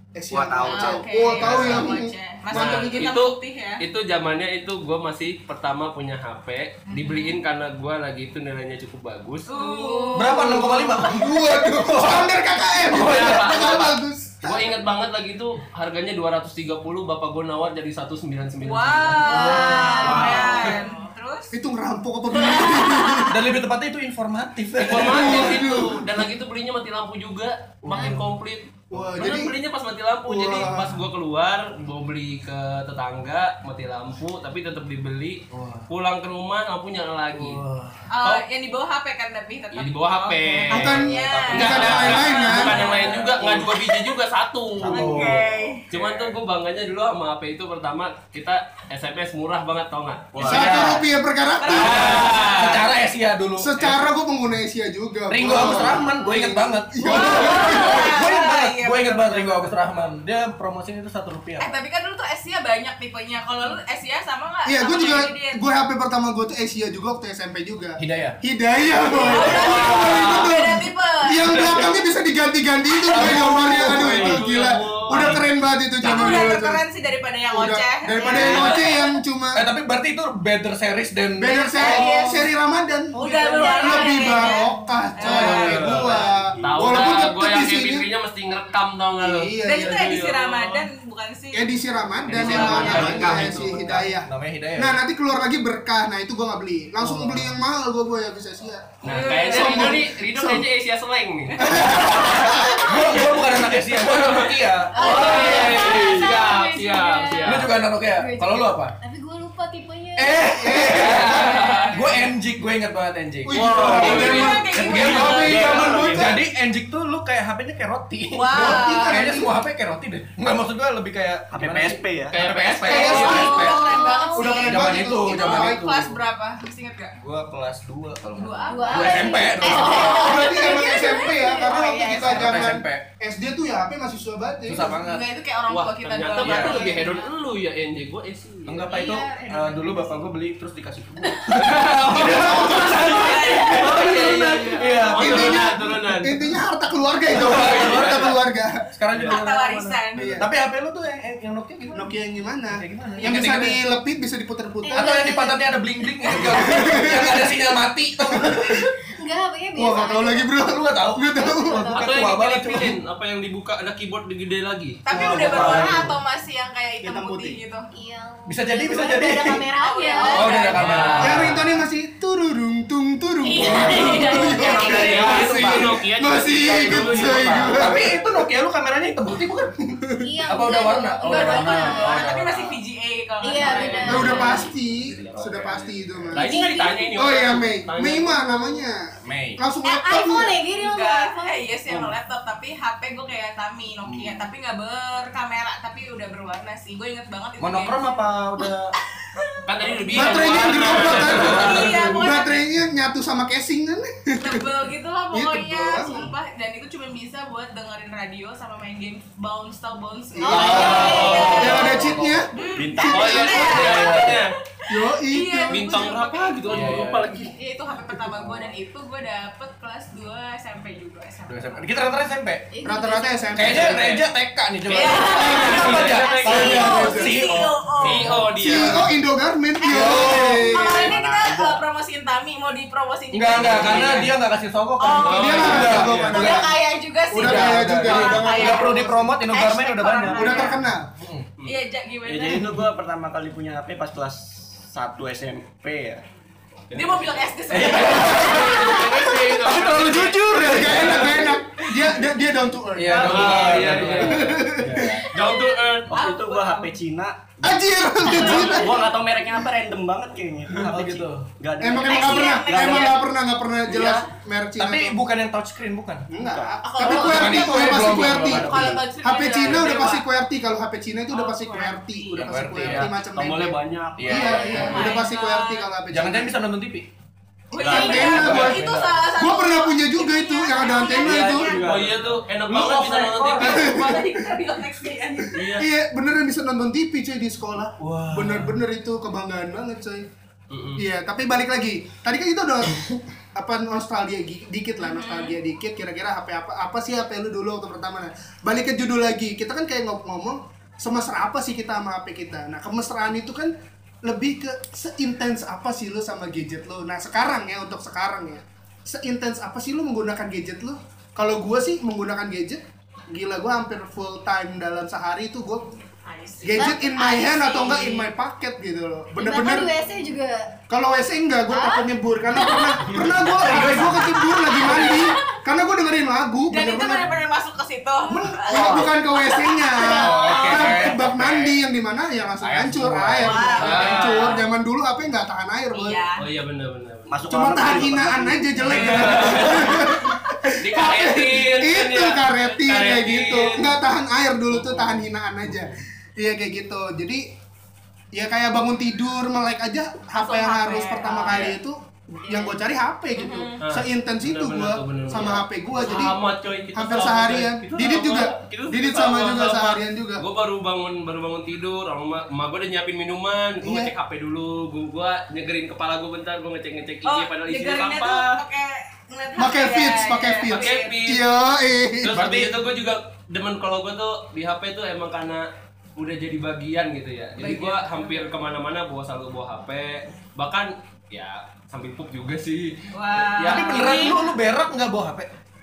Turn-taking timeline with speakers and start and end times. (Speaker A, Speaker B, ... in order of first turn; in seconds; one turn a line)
Speaker A: 0.1-3.1
Speaker B: 0.3-1.3
Speaker C: 0.6-3.8
Speaker D: 1.4-1.9
Speaker D: 2.5-9.6
Speaker C: 6.9-7.4
Speaker C: 9.5-10.8
Speaker E: 9.7-10.2
Speaker F: 10.1-13.7
Speaker A: 10.2-14.8
Speaker D: 12.9-13.9
Speaker D: 14.4-20.7
Speaker C: 18.6-21.5
Speaker F: 19.2-20.8
Speaker E: 19.4-20.9
Speaker A: 19.5-20.3
Speaker A: 21.5-23.4
Speaker C: 22.3-23.3
Speaker F: 23.3-25.8
Speaker D: 24.8-37.6
Speaker A: 24.9-26.1
Speaker F: 27.8-28.2
Speaker A: 28.9-29.5
Speaker A: 30.2-31.0
Speaker F: 35.5-35.9
Speaker F: 37.3-38.0
Speaker C: 38.1-44.0
Speaker D: 39.7-45.3
Speaker A: 40.7-42.8
Speaker F: 40.8-43.7
Speaker F: 44.8-46.3
Speaker C: 44.9-45.8
Speaker D: 45.9-51.0
Speaker B: 50.3-51.0
Speaker A: 50.4-52.8
Speaker F: 50.4-51.0
Speaker C: 51.6-52.8
Speaker F: 51.6-54.0
Speaker D: 51.7-52.6
Speaker A: 53.6-58.2
Speaker F: 55.3-61.8
Speaker C: 57.0-59.8
Speaker C: 61.6-65.6
Speaker A: 64.7-76.8
Speaker F: 68.0-68.4
Speaker C: 69.1-71.6
Speaker F: 69.2-70.4
Speaker F: 71.4-72.0
Speaker F: 73.0-74.4
Speaker D: 73.9-75.4
Speaker F: 75.1-75.4
Speaker F: 76.0-76.5
Speaker C: 76.0-79.2
Speaker A: 77.5-79.6
Speaker D: 78.3-78.8
Speaker F: 78.4-78.8
Speaker F: 79.5-82.1
Speaker A: 81.4-88.0
Speaker C: 81.5-82.5
Speaker C: 83.1-86.3
Speaker E: 83.6-84.5
Speaker D: 85.2-90.8
Speaker B: 85.9-87.0
Speaker A: 89.2-90.3
Speaker C: 89.6-91.7
Speaker A: 91.5-100.7
Speaker F: 92.1-95.0
Speaker D: 92.3-93.8
Speaker C: 92.4-93.3
Speaker F: 97.0-97.5
Speaker D: 99.0-101.8
Speaker C: 99.0-100.0
Speaker F: 101.5-105.0
Speaker C: 101.8-103.0
Speaker D: 103.8-107.7
Speaker E: 104.9-112.2
Speaker C: 105.0-107.0
Speaker F: 107.4-108.9
Speaker F: 110.2-124.1
Speaker A: 110.6-111.4
Speaker D: 111.0-112.0
Speaker C: 111.0-112.2
Speaker A: 113.5-116.4
Speaker B: 113.5-116.4
Speaker C: 113.9-115.8
Speaker D: 114.1-114.5
Speaker C: 118.3-119.2
Speaker A: 118.5-119.6
Speaker B: 121.5-122.4
Speaker D: 122.3-123.5
Speaker A: 122.8-125.9
Speaker C: 122.9-127.1
Speaker E: 123.1-124.7
Speaker F: 124.6-126.2
Speaker F: 127.1-130.5
Speaker C: 128.3-132.7
Speaker E: 128.7-132.2
Speaker A: 129.6-134.9
Speaker F: 132.2-133.0
Speaker F: 134.7-135.2
Speaker C: 135.0-137.3
Speaker D: 135.7-139.0
Speaker F: 136.4-136.9
Speaker F: 138.7-145.8
Speaker E: 138.9-140.2
Speaker C: 141.4-144.1
Speaker D: 141.5-142.4
Speaker D: 143.5-146.5
Speaker A: 145.2-148.8
Speaker F: 147.3-148.4
Speaker F: 148.9-152.1
Speaker C: 149.2-150.3
Speaker A: 150.1-150.5
Speaker A: 151.9-155.3
Speaker F: 152.7-153.8
Speaker E: 154.8-155.5
Speaker F: 154.9-158.9
Speaker C: 156.2-156.7
Speaker A: 156.3-157.6
Speaker A: 158.3-158.9
Speaker E: 159.2-160.6
Speaker A: 159.7-161.9
Speaker F: 160.6-163.0
Speaker E: 161.3-162.1
Speaker D: 161.9-165.0
Speaker C: 165.0-167.8
Speaker A: 165.1-165.9
Speaker F: 165.1-166.2
Speaker B: 165.2-166.0
Speaker B: 167.1-167.5
Speaker E: 167.9-171.2
Speaker F: 168.4-169.7
Speaker C: 169.8-171.4
Speaker F: 170.3-171.7
Speaker D: 170.6-171.6
Speaker A: 171.2-178.2
Speaker C: 173.4-175.2
Speaker E: 173.5-175.5
Speaker F: 173.6-175.9
Speaker D: 174.7-178.1
Speaker F: 176.9-182.8
Speaker E: 180.2-182.3
Speaker C: 181.2-184.7
Speaker E: 183.4-184.7
Speaker D: 183.5-188.5
Speaker A: 184.1-186.5
Speaker F: 185.1-186.3
Speaker E: 186.4-187.0
Speaker C: 186.4-187.0
Speaker A: 187.2-190.6
Speaker F: 189.2-189.6
Speaker E: 189.8-191.6
Speaker C: 190.6-198.7
Speaker B: 191.9-192.1
Speaker F: 194.0-194.5
Speaker F: 197.6-198.9
Speaker C: 199.2-200.2
Speaker D: 199.7-202.0
Speaker F: 200.1-202.3
Speaker A: 200.1-204.7
Speaker C: 200.7-202.6
Speaker C: 204.4-216.6
Speaker A: 205.3-206.3
Speaker A: 210.3-214.2
Speaker E: 210.4-212.0
Speaker D: 210.5-211.9
Speaker F: 210.6-212.5
Speaker B: 212.8-213.5
Speaker D: 213.0-214.5
Speaker F: 213.6-214.4
Speaker A: 214.9-216.0
Speaker D: 215.7-217.5
Speaker F: 216.7-217.4
Speaker C: 217.5-221.9
Speaker F: 218.3-218.7
Speaker F: 221.5-222.7
Speaker E: 222.7-223.9
Speaker A: 222.8-224.2
Speaker F: 223.5-229.1
Speaker C: 224.8-228.5
Speaker A: 225.2-227.6
Speaker E: 226.4-226.9
Speaker D: 228.0-229.0
Speaker A: 228.6-231.2
Speaker C: 229.8-234.3
Speaker F: 229.8-230.7
Speaker B: 230.2-231.8
Speaker F: 233.3-236.7
Speaker B: 233.6-234.3
Speaker D: 233.8-234.2
Speaker C: 235.0-240.8
Speaker D: 235.2-236.5
Speaker A: 235.3-236.8
Speaker F: 237.3-241.5
Speaker A: 237.3-239.3
Speaker A: 240.2-241.1
Speaker C: 241.6-242.6
Speaker B: 242.2-246.2
Speaker F: 242.5-242.8
Speaker D: 246.9-251.4
Speaker C: 246.9-249.3
Speaker F: 247.7-249.0
Speaker F: 249.6-252.2
Speaker A: 250.6-255.2
Speaker F: 252.9-254.7
Speaker D: 253.1-254.7
Speaker B: 253.1-255.5
Speaker C: 255.2-256.9
Speaker D: 255.2-256.1
Speaker B: 256.1-263.3
Speaker A: 257.6-259.1
Speaker C: 258.3-259.1
Speaker F: 260.8-261.5
Speaker A: 261.8-265.2
Speaker C: 262.0-263.2
Speaker B: 263.9-264.2
Speaker F: 264.8-266.3
Speaker A: 266.3-276.5
Speaker B: 266.4-267.3
Speaker C: 266.8-270.2
Speaker F: 267.0-269.1
Speaker C: 271.3-272.3
Speaker F: 272.3-273.1
Speaker B: 273.3-275.1
Speaker F: 274.2-275.1
Speaker C: 274.4-275.9
Speaker F: 276.1-277.1
Speaker C: 277.7-281.9
Speaker A: 277.8-281.8
Speaker B: 277.8-278.6
Speaker F: 278.1-279.3
Speaker B: 281.1-282.4
Speaker D: 281.8-284.0
Speaker F: 282.6-284.0
Speaker C: 283.5-285.6
Speaker A: 283.6-284.5
Speaker D: 285.5-285.9
Speaker A: 285.6-290.3
Speaker F: 288.0-288.8
Speaker D: 290.7-291.0
Speaker A: 291.0-303.7
Speaker C: 295.0-295.6
Speaker A: 304.2-316.0
Speaker C: 316.2-317.0
Speaker A: 316.6-319.9
Speaker E: 316.7-318.3
Speaker E: 319.4-320.7
Speaker A: 320.9-327.3
Speaker E: 321.7-323.2
Speaker F: 323.4-324.4
Speaker C: 324.4-325.4
Speaker E: 324.4-324.8
Speaker C: 326.7-331.0
Speaker A: 328.3-336.2
Speaker E: 329.9-330.9
Speaker F: 330.0-331.7
Speaker F: 332.6-334.1
Speaker C: 333.4-334.6
Speaker D: 333.8-334.6
Speaker C: 335.9-336.4
Speaker D: 336.4-337.3
Speaker B: 337.3-339.6
Speaker A: 337.5-347.4
Speaker D: 338.8-340.2
Speaker C: 339.9-340.3
Speaker D: 340.8-343.9
Speaker D: 344.7-345.3
Speaker A: 348.3-356.4
Speaker C: 350.3-351.6
Speaker D: 351.5-351.8
Speaker C: 353.4-353.8
Speaker D: 353.8-368.6
Speaker A: 356.9-360.4
Speaker A: 363.8-364.1
Speaker C: 367.2-371.1
Speaker A: 369.6-372.5
Speaker D: 370.7-371.4
Speaker D: 372.2-384.4
Speaker F: 372.3-372.7
Speaker C: 377.6-378.5
Speaker C: 383.1-384.5
Speaker F: 383.6-385.5